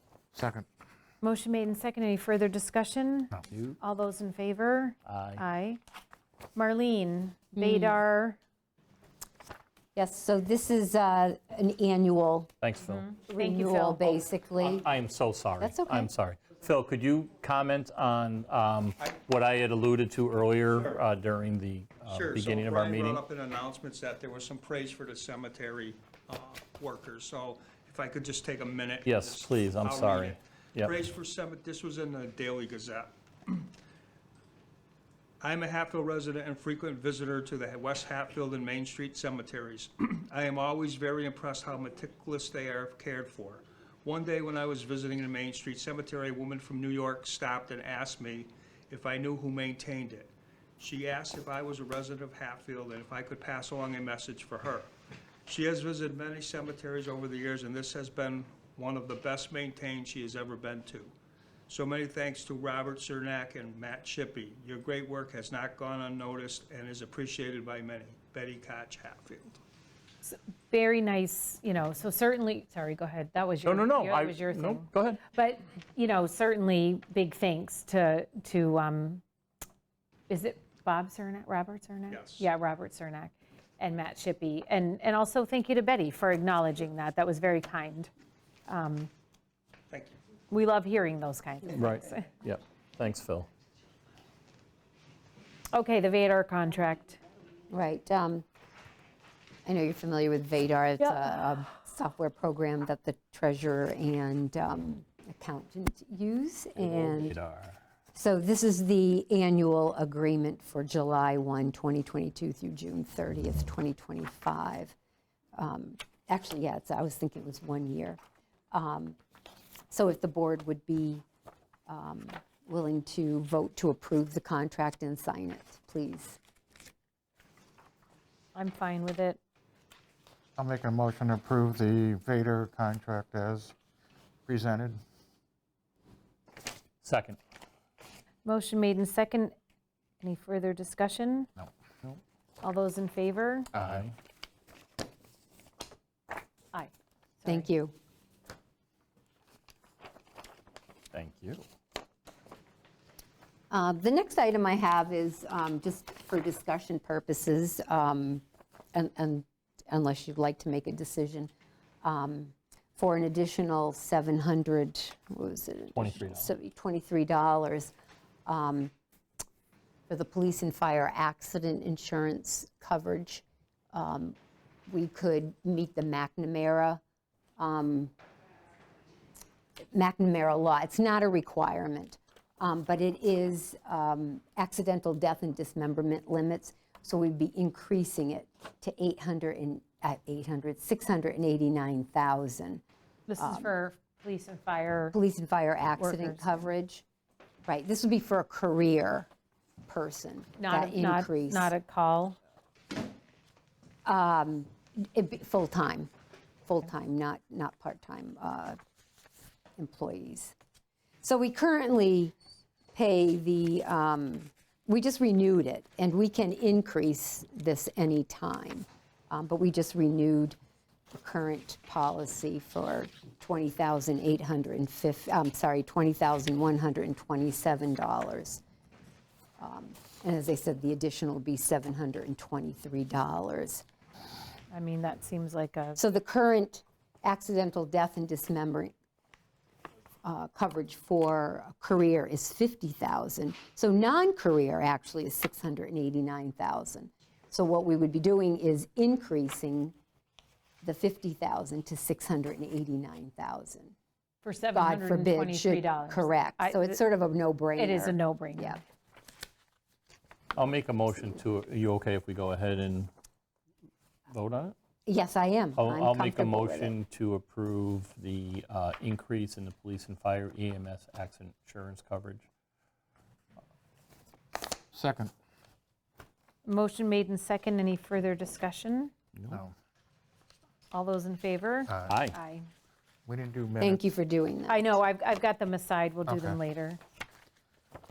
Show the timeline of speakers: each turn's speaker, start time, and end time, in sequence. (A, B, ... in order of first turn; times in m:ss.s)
0:00.4-0:00.7 A
0:01.2-0:05.8 B
0:03.5-0:03.8 C
0:05.0-0:05.4 C
0:06.6-0:08.4 B
0:07.6-0:08.0 D
0:10.0-0:12.5 D
0:12.6-0:13.1 C
0:12.9-0:14.2 B
0:13.2-0:14.9 D
0:14.7-0:23.2 C
0:15.6-0:16.1 D
0:22.1-0:33.7 E
0:29.0-0:30.9 C
0:35.4-0:54.9 E
0:55.5-1:01.1 E
1:01.7-1:09.6 E
1:10.2-1:19.2 B
1:13.6-1:15.2 C
1:20.3-1:28.1 B
1:22.1-1:22.5 E
1:28.7-1:29.1 B
1:29.9-1:30.2 E
1:30.5-1:32.3 B
1:31.8-1:33.5 C
1:35.7-1:37.2 B
1:37.7-1:38.5 D
1:39.6-1:47.4 D
1:46.8-1:47.8 C
1:48.1-1:55.0 D
1:55.6-1:58.2 D
1:58.7-1:59.2 D
1:59.9-2:01.2 D
2:01.9-2:06.4 D
2:08.6-2:09.4 B
2:10.6-2:13.8 A
2:14.5-2:15.0 A
2:17.0-2:17.4 C
2:18.4-2:19.6 B
2:20.2-2:21.5 B
2:22.6-2:23.7 B
2:23.7-2:24.1 C
2:26.7-2:27.7 B
2:27.5-2:28.0 D
2:31.1-2:31.6 C
2:33.7-2:41.5 D
2:42.0-2:47.9 D
2:46.0-2:46.5 C
2:48.5-2:48.9 D
2:50.1-2:54.4 D
2:54.9-2:57.0 D
2:57.6-2:58.1 D
2:59.8-3:12.8 D
3:13.3-3:15.2 B
3:13.4-3:13.7 D
3:15.1-3:17.0 D
3:16.0-3:16.5 B
3:17.7-3:19.3 D
3:19.9-3:21.7 D
3:20.6-3:22.4 B
3:24.0-3:26.1 D
3:26.6-3:28.8 D
3:29.8-3:30.6 D
3:31.2-3:32.4 D
3:32.9-3:40.6 D
3:41.1-3:48.6 D
3:49.6-3:53.8 D
3:54.7-3:56.0 B
3:56.0-3:59.0 D
4:00.2-4:10.0 D
4:10.8-4:14.0 D
4:14.4-4:17.0 B
4:14.7-4:18.8 D
4:17.8-4:18.8 B
4:20.6-4:23.1 C
4:24.3-4:24.8 C
4:25.1-4:26.9 D
4:25.8-4:32.5 C
4:34.9-4:35.3 A
4:36.6-4:39.1 B
4:40.9-4:42.7 B
4:42.1-4:42.4 C
4:43.3-4:44.0 A
4:43.8-4:44.8 D
4:44.7-4:47.0 B